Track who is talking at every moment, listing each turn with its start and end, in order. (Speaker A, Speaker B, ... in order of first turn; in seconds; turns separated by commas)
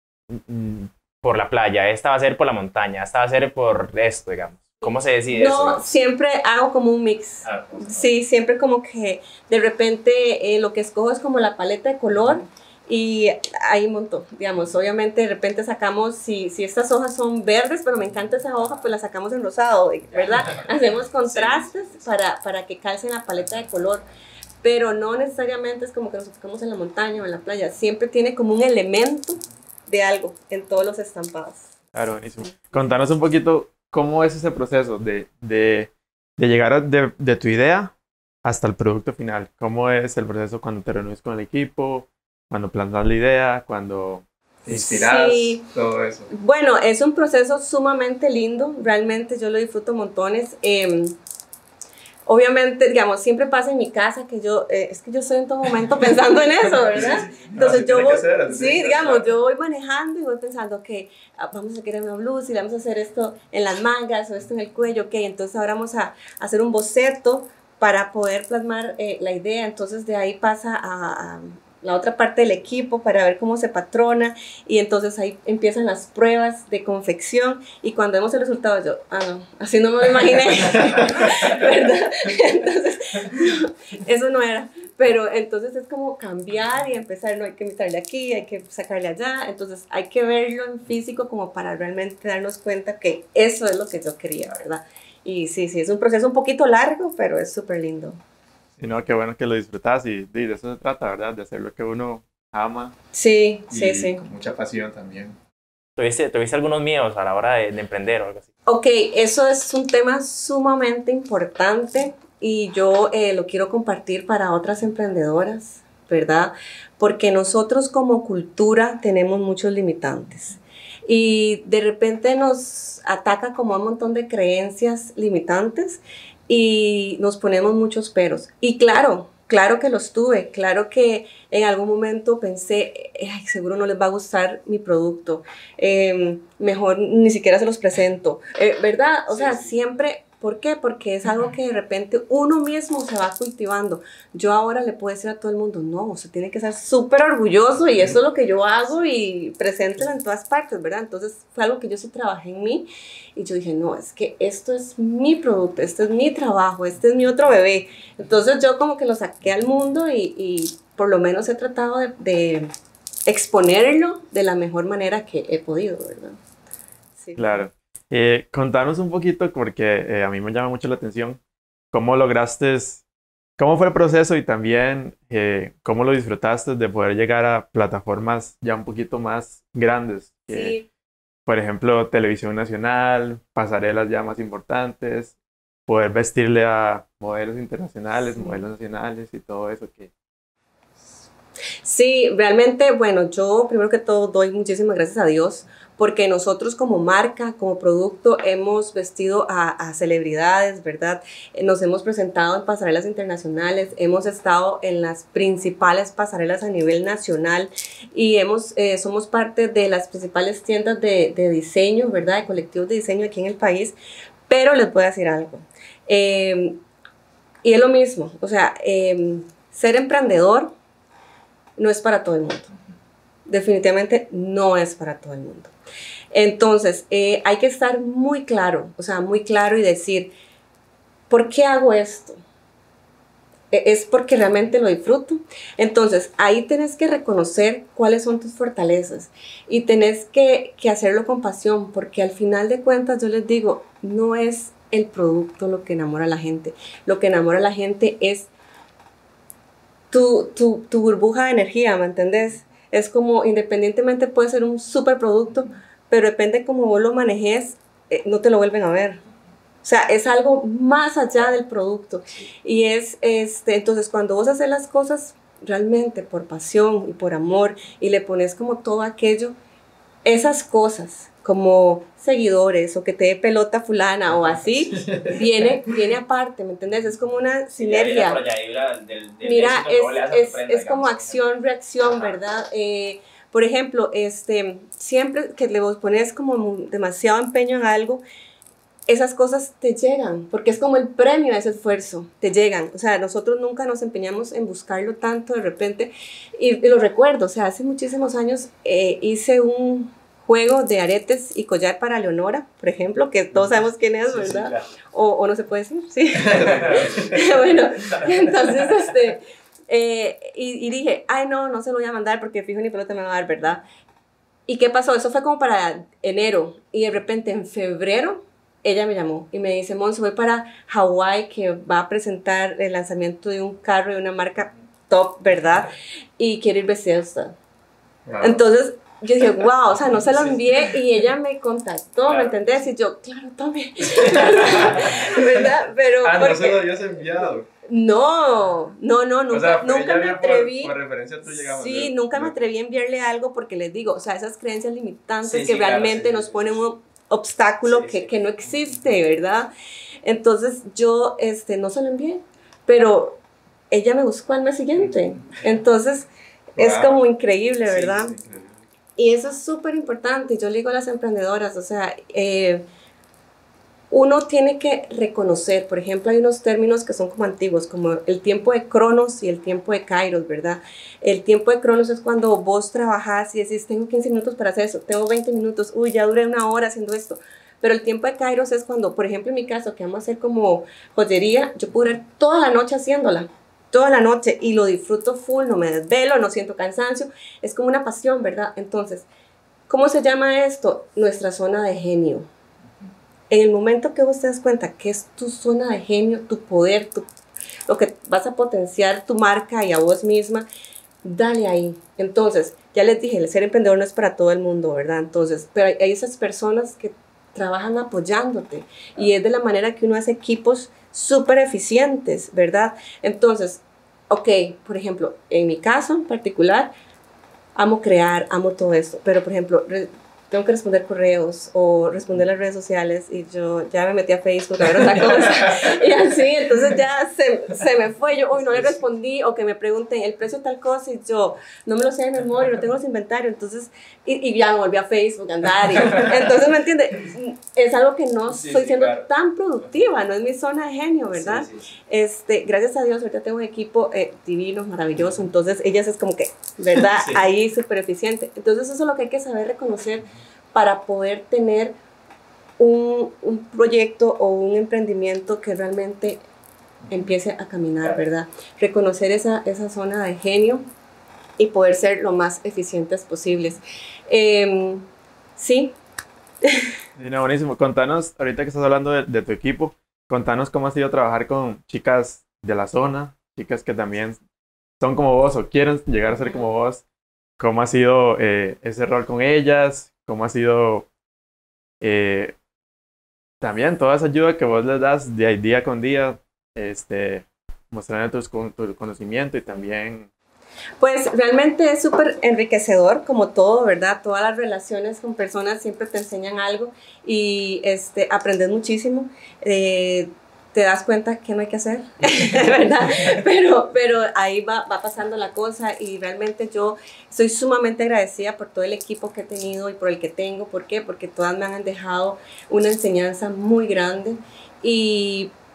Speaker A: 0.3-6.0, Speaker B: 5.3-24.0, Speaker A: 7.4-8.1, Speaker A: 20.1-20.6, Speaker A: 21.2-22.0, Speaker B: 24.6-31.7, Speaker C: 31.9-37.9, Speaker C: 38.4-46.3, Speaker B: 44.7-45.6, Speaker B: 46.3-51.1, Speaker B: 52.3-98.2, Speaker C: 56.9-59.3, Speaker C: 98.8-102.9, Speaker B: 103.1-104.2, Speaker C: 103.7-105.3, Speaker A: 106.0-108.5, Speaker B: 108.7-162.7, Speaker A: 139.3-139.7, Speaker B: 163.3-166.4, Speaker B: 167.2-167.6, Speaker C: 167.4-171.4, Speaker C: 171.9-173.0, Speaker C: 173.6-180.8, Speaker B: 180.5-180.8, Speaker C: 181.5-185.3, Speaker C: 185.9-190.1, Speaker B: 188.3-188.6, Speaker B: 191.8-213.9, Speaker B: 214.5-216.8, Speaker B: 217.6-220.7, Speaker B: 221.8-222.7, Speaker B: 223.5-225.7, Speaker B: 226.3-230.3, Speaker B: 231.3-232.4, Speaker B: 233.7-248.5, Speaker B: 250.1-259.2, Speaker B: 259.8-269.5, Speaker B: 270.2-278.4, Speaker C: 275.0-275.4, Speaker A: 277.7-281.4, Speaker B: 279.4-288.2, Speaker A: 282.0-282.4, Speaker B: 289.1-313.8, Speaker A: 304.3-304.9, Speaker C: 306.4-307.4, Speaker A: 306.6-307.4, Speaker A: 308.0-309.1, Speaker B: 314.7-327.6, Speaker C: 328.3-328.6, Speaker B: 328.4-337.2, Speaker A: 332.2-332.8, Speaker C: 334.2-335.7, Speaker C: 336.2-337.6, Speaker B: 337.9-349.7, Speaker C: 339.5-342.5, Speaker A: 345.4-346.8, Speaker A: 347.9-348.3, Speaker B: 350.2-358.4, Speaker C: 356.8-357.2, Speaker C: 357.9-358.8, Speaker B: 359.2-362.8, Speaker B: 364.1-389.2, Speaker B: 389.9-392.5, Speaker B: 393.5-397.2, Speaker B: 397.9-400.6, Speaker B: 401.2-416.9, Speaker B: 417.8-452.0, Speaker A: 438.5-439.3, Speaker A: 441.3-441.9, Speaker A: 447.1-447.4, Speaker B: 452.8-456.4, Speaker B: 457.1-460.9, Speaker B: 461.6-465.9, Speaker B: 466.6-466.9, Speaker C: 467.1-474.4, Speaker C: 475.0-477.0, Speaker C: 477.6-481.1, Speaker C: 482.0-482.6, Speaker C: 483.6-490.3, Speaker B: 491.0-515.5